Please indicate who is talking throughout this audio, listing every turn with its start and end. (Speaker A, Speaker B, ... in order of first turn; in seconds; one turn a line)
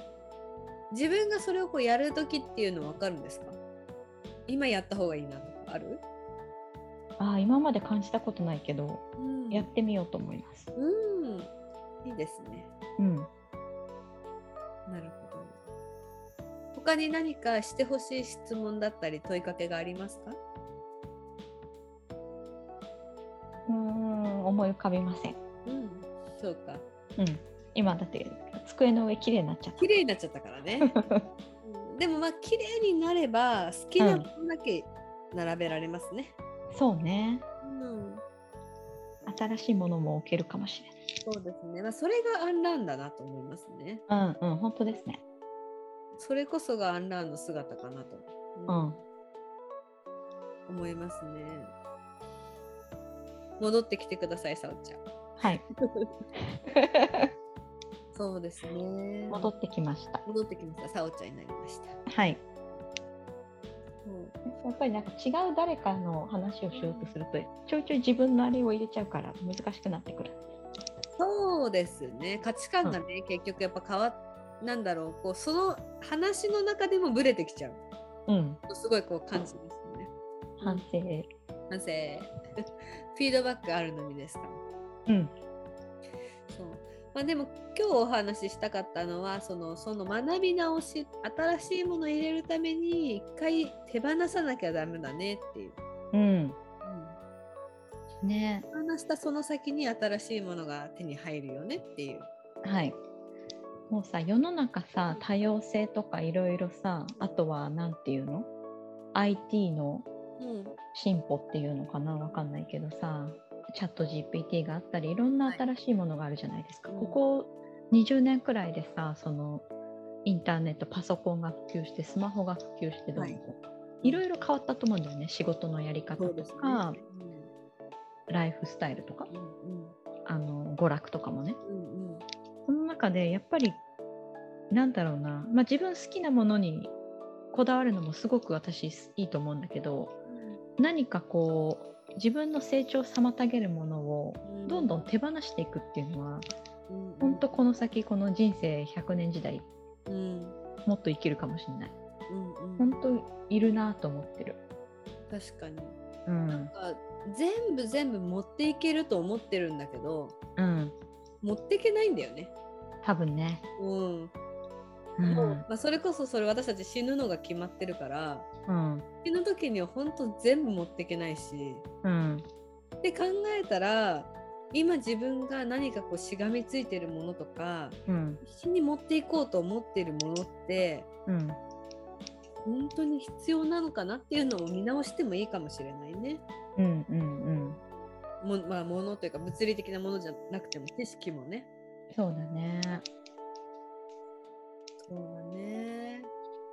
Speaker A: 0.9-3.6
Speaker A: 4.5-6.0
Speaker B: 7.2-10.7
Speaker A: 9.2-9.7
Speaker A: 10.7-11.5
Speaker A: 12.0-12.7
Speaker B: 13.0-13.3
Speaker A: 14.8-15.6
Speaker A: 16.7-20.4
Speaker B: 23.7-25.4
Speaker A: 25.6-26.9
Speaker B: 27.2-29.9
Speaker A: 29.8-31.1
Speaker B: 30.8-31.3
Speaker A: 31.6-36.4
Speaker B: 34.0-34.3
Speaker B: 36.7-37.4
Speaker A: 37.6-38.2
Speaker B: 39.2-40.9
Speaker A: 41.2-44.0
Speaker B: 44.1-45.2
Speaker A: 46.2-49.0
Speaker B: 48.7-49.0
Speaker A: 50.7-51.7
Speaker A: 53.6-55.0
Speaker A: 55.8-56.1
Speaker B: 56.7-57.3
Speaker A: 58.1-59.5
Speaker B: 59.3-60.2
Speaker A: 60.2-62.0
Speaker B: 62.1-62.4
Speaker A: 64.0-64.4
Speaker B: 64.4-70.4
Speaker A: 66.7-67.1
Speaker A: 71.2-77.8
Speaker B: 78.3-78.6
Speaker A: 78.7-80.1
Speaker B: 80.6-81.3
Speaker A: 81.7-82.3
Speaker A: 83.1-84.6
Speaker B: 85.1-85.3
Speaker A: 86.5-95.8
Speaker B: 96.1-96.6
Speaker A: 96.8-97.2
Speaker B: 98.2-98.7
Speaker A: 98.7-102.3
Speaker B: 102.6-103.0
Speaker B: 103.9-108.5
Speaker B: 109.1-110.1
Speaker A: 110.4-110.8
Speaker B: 110.9-119.6
Speaker A: 116.9-117.2
Speaker B: 120.2-127.0
Speaker A: 126.2-127.5
Speaker B: 128.3-129.3
Speaker A: 129.3-130.0
Speaker B: 130.2-131.6
Speaker A: 131.6-132.2
Speaker B: 132.7-133.8
Speaker B: 134.7-136.9
Speaker B: 137.5-140.1
Speaker A: 140.3-140.6
Speaker B: 140.8-146.4
Speaker A: 144.4-144.9
Speaker A: 146.9-147.6
Speaker B: 147.2-149.7
Speaker A: 150.1-150.6
Speaker B: 150.8-151.9
Speaker A: 152.3-153.0
Speaker B: 152.8-154.6
Speaker A: 155.3-156.0
Speaker B: 156.2-156.7
Speaker A: 156.5-160.3
Speaker B: 160.6-160.9
Speaker A: 161.4-162.5
Speaker B: 163.0-163.6
Speaker A: 163.8-164.3
Speaker B: 165.2-165.6
Speaker A: 165.2-168.5
Speaker B: 168.7-169.0
Speaker A: 169.2-171.8
Speaker B: 172.0-172.4
Speaker A: 173.0-181.1
Speaker B: 178.1-178.4
Speaker B: 181.3-181.6
Speaker A: 182.6-186.4
Speaker B: 186.8-187.8
Speaker A: 188.4-191.7
Speaker B: 192.1-193.0
Speaker A: 195.1-196.3